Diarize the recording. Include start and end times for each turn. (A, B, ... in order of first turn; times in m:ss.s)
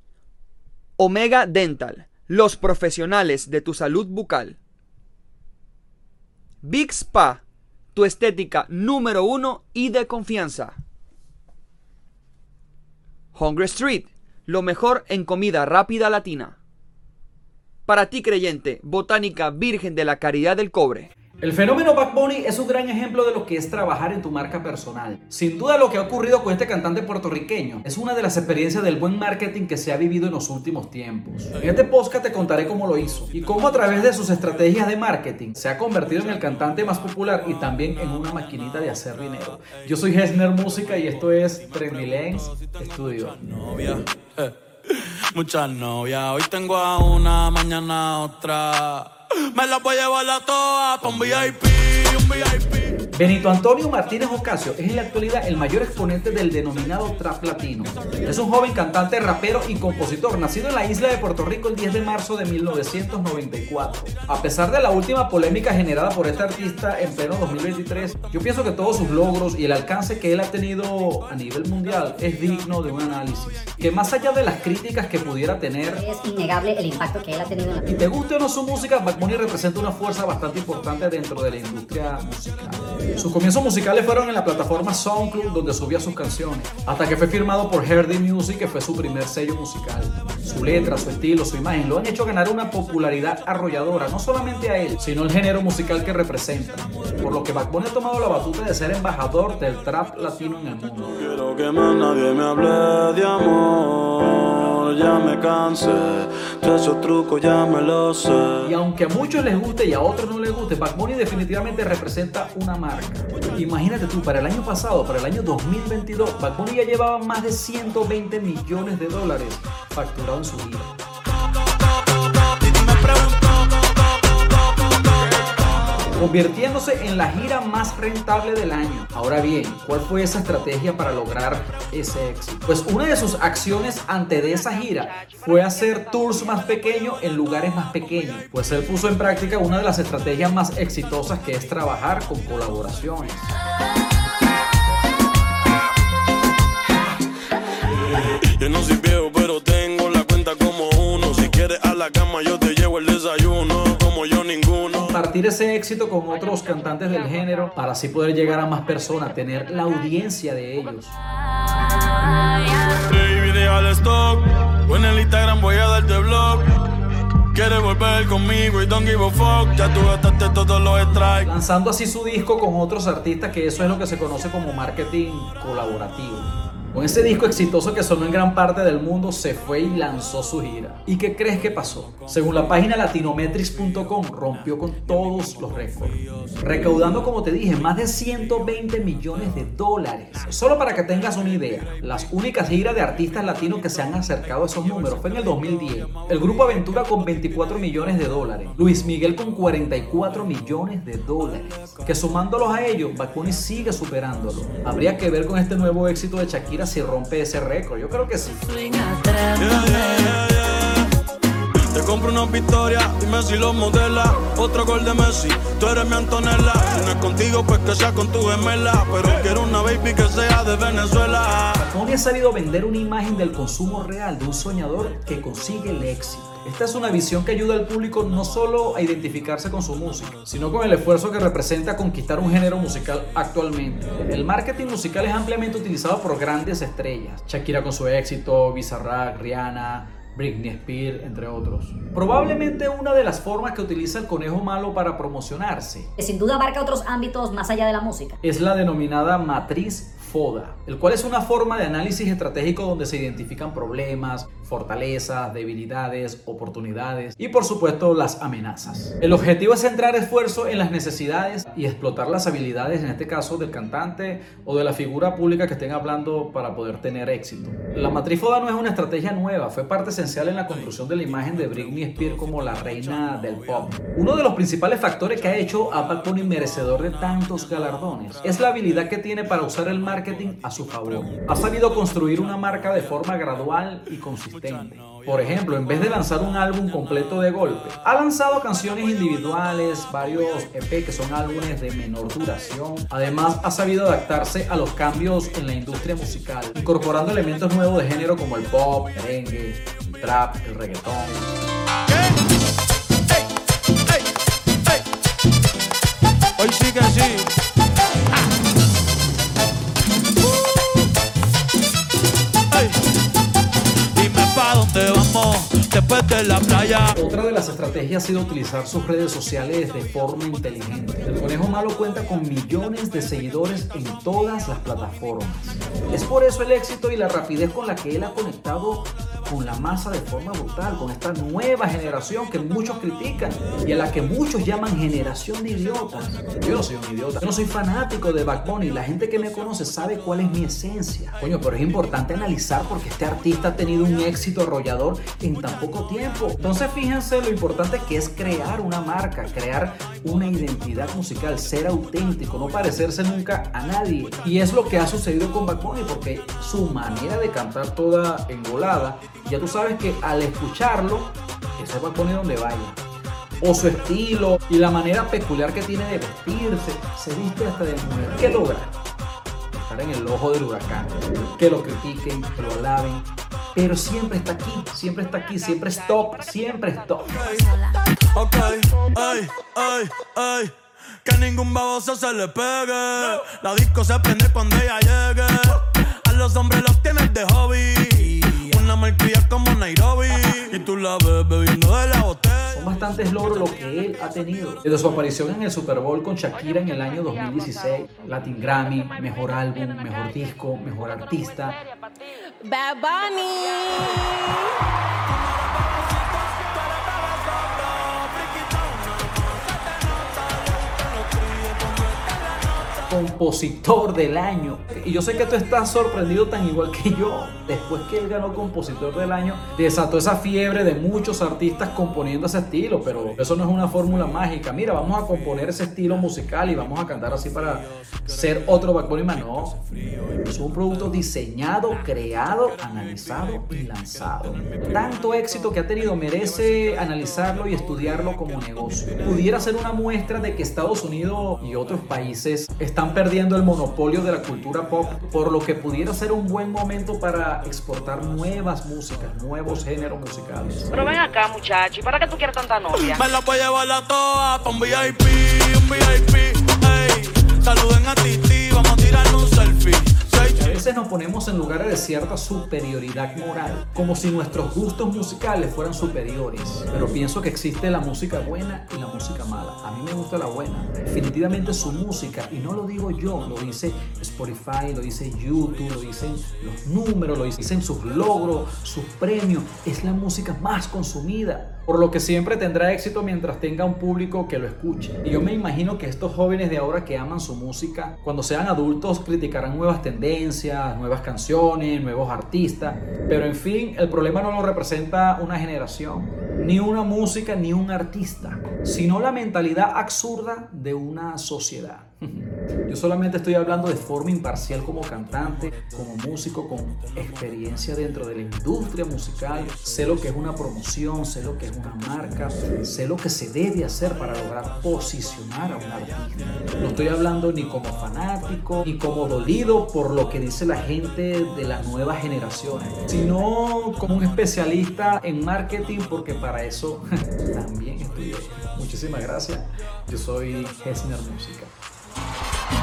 0:01.0-0:04.6 A
0:06.6-0:07.4 A
0:07.9-0:10.8 A
0:13.4-0:16.6 A
0:17.9-0:21.1 A
0:21.4-0:43.4 B
0:33.3-0:34.1 C
0:41.5-0:53.0 C
0:53.1-1:16.0 B
1:16.0-1:17.8 D
1:17.9-1:41.1 B
1:41.1-1:48.7 C
1:48.6-2:00.9 B
2:02.6-2:03.8 C
2:04.3-2:05.6 C
2:06.1-2:23.5 B
2:28.1-2:35.2 C
2:35.0-2:41.2 B
2:42.8-2:46.7 C
2:47.5-2:51.5 C
2:51.4-3:28.6 B
3:06.2-3:06.6 C
3:29.1-3:29.5 E
3:29.6-3:31.1 C
3:31.9-3:41.8 C
3:41.8-4:06.1 B
4:06.2-4:08.4 D
4:08.4-5:01.6 B
4:31.2-4:33.9 C
5:06.6-5:07.5 C
5:14.2-5:17.1 C
5:17.2-6:03.0 B
6:03.6-6:08.9 B
6:09.7-6:17.4 B
6:17.3-6:20.7 C
6:21.2-6:32.8 C
6:32.7-6:41.8 B
6:42.6-6:44.7 E
6:45.9-6:53.0 C
6:53.1-7:09.8 B
7:10.4-7:30.9 B
7:31.1-7:33.1 F
7:32.9-7:40.8 C
7:40.5-8:51.7 B